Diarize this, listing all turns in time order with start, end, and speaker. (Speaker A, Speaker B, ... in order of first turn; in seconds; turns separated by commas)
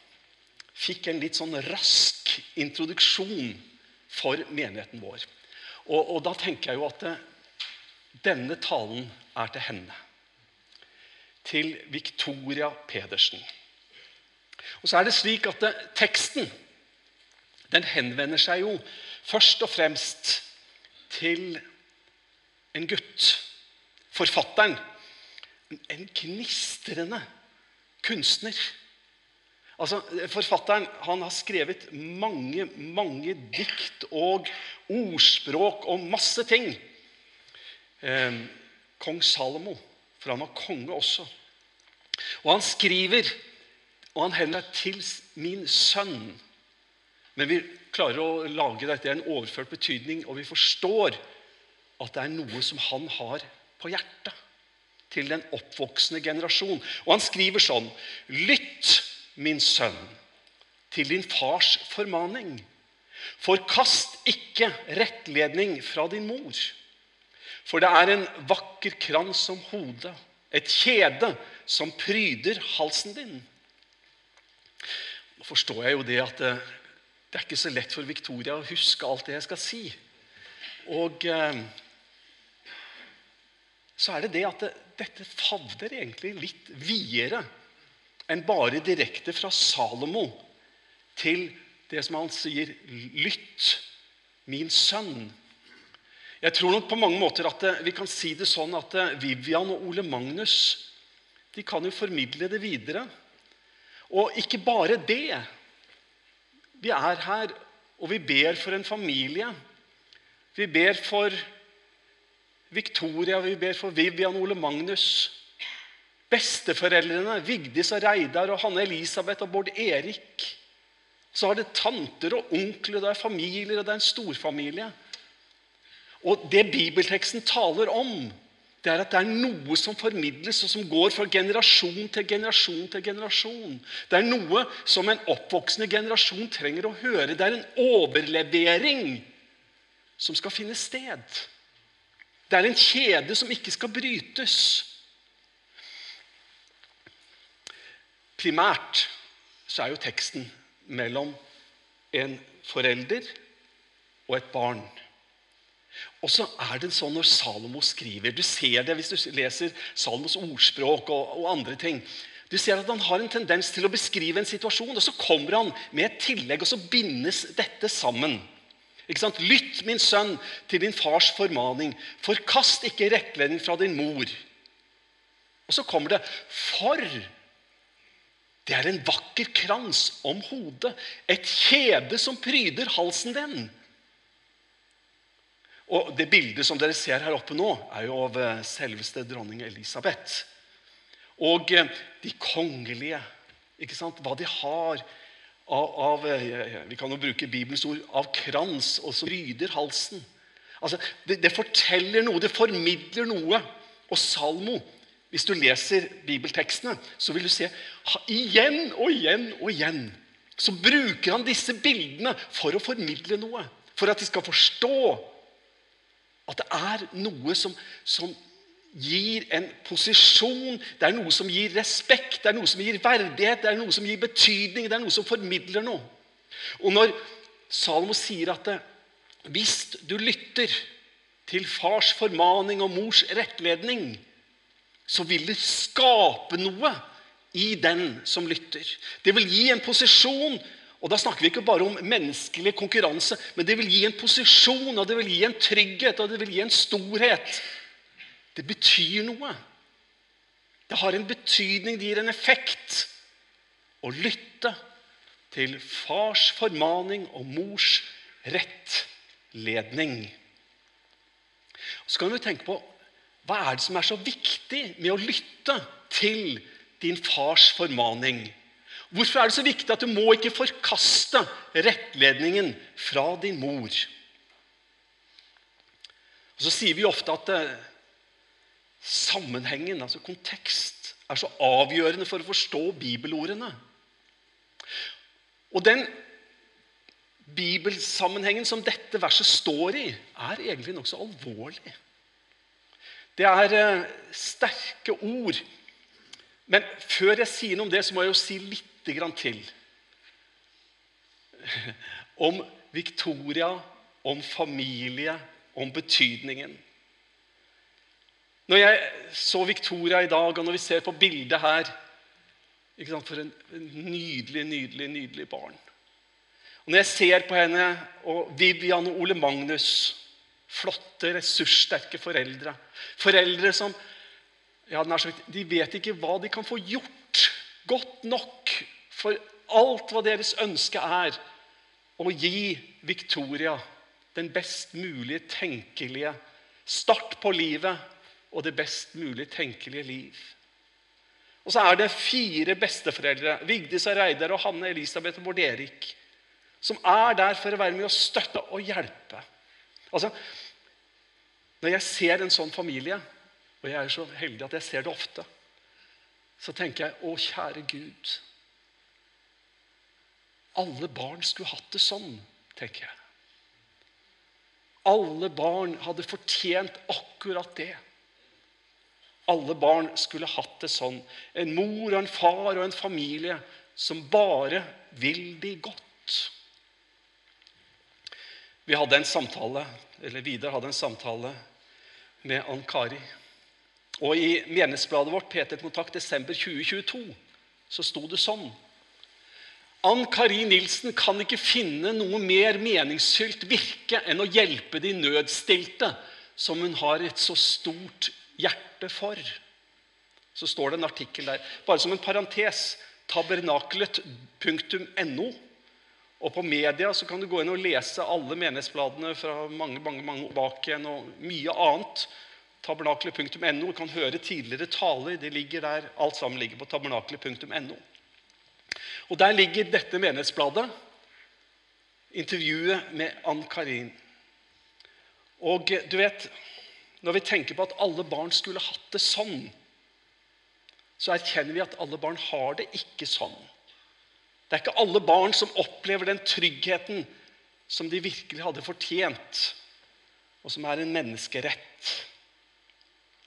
Speaker A: 0.7-5.2, Speaker A: 5.8-7.2, Speaker A: 8.2-10.0, Speaker A: 11.4-13.4, Speaker A: 14.8-16.5, Speaker A: 17.7-20.4, Speaker A: 21.1-21.6, Speaker A: 22.7-23.4, Speaker A: 24.1-24.8, Speaker A: 25.7-27.2, Speaker A: 28.0-28.7, Speaker A: 29.8-36.8, Speaker A: 38.0-41.3, Speaker A: 42.4-43.4, Speaker A: 44.1-46.4, Speaker A: 47.3-51.2, Speaker A: 52.0-54.3, Speaker A: 55.1-60.1, Speaker A: 60.9-62.6, Speaker A: 63.4-66.8, Speaker A: 67.6-73.5, Speaker A: 75.4-76.7, Speaker A: 77.3-80.0, Speaker A: 80.8-81.7, Speaker A: 84.0-87.4, Speaker A: 88.3-90.4, Speaker A: 91.2-93.8, Speaker A: 94.5-95.3, Speaker A: 96.4-100.9, Speaker A: 101.5-103.1, Speaker A: 104.1-105.5, Speaker A: 106.8-109.5, Speaker A: 110.5-111.4, Speaker A: 112.7-115.3, Speaker A: 116.3-120.6, Speaker A: 121.3-124.9, Speaker A: 126.2-139.3, Speaker A: 140.2-141.5, Speaker A: 142.5-144.9, Speaker A: 148.4-149.1, Speaker A: 149.7-151.4, Speaker A: 152.1-153.3, Speaker A: 154.3-154.9, Speaker A: 156.2-168.4, Speaker A: 169.1-174.4, Speaker A: 175.7-177.3, Speaker A: 178.6-183.7, Speaker A: 185.9-190.5, Speaker A: 191.4-193.2, Speaker A: 193.8-195.0, Speaker A: 195.7-200.2, Speaker A: 200.8-215.3, Speaker A: 216.5-218.4, Speaker A: 218.9-226.1, Speaker A: 226.8-227.2, Speaker A: 227.7-228.8, Speaker A: 229.4-230.8, Speaker A: 231.4-234.2, Speaker A: 235.1-247.6, Speaker A: 248.5-249.6, Speaker A: 250.9-253.1, Speaker A: 254.0-254.8, Speaker A: 255.5-260.3, Speaker A: 262.1-262.9, Speaker A: 263.4-268.5, Speaker A: 269.1-274.1, Speaker A: 276.6-277.8, Speaker A: 279.0-283.8, Speaker A: 285.7-286.1, Speaker A: 287.4-291.9, Speaker A: 293.4-295.6, Speaker A: 296.7-299.7, Speaker A: 301.6-306.8, Speaker A: 308.7-311.9, Speaker A: 313.0-315.8, Speaker A: 316.9-320.2, Speaker A: 320.7-323.9, Speaker A: 324.9-331.4, Speaker A: 332.2-333.8, Speaker A: 334.3-340.6, Speaker A: 341.6-346.2, Speaker A: 346.8-349.4, Speaker A: 351.8-353.2, Speaker A: 353.8-355.5, Speaker A: 356.6-358.4, Speaker A: 360.7-363.1, Speaker A: 365.0-368.0, Speaker A: 369.5-376.5, Speaker A: 378.9-381.6, Speaker A: 382.4-383.3, Speaker A: 384.2-387.4, Speaker A: 387.9-388.7, Speaker A: 390.0-399.6, Speaker A: 400.5-405.6, Speaker A: 406.4-412.3, Speaker A: 412.8-418.0, Speaker A: 419.3-420.9, Speaker A: 422.3-424.1, Speaker A: 425.6-426.5, Speaker A: 427.2-429.7, Speaker A: 431.2-433.6, Speaker A: 434.7-437.3, Speaker A: 437.9-439.8, Speaker A: 440.6-442.3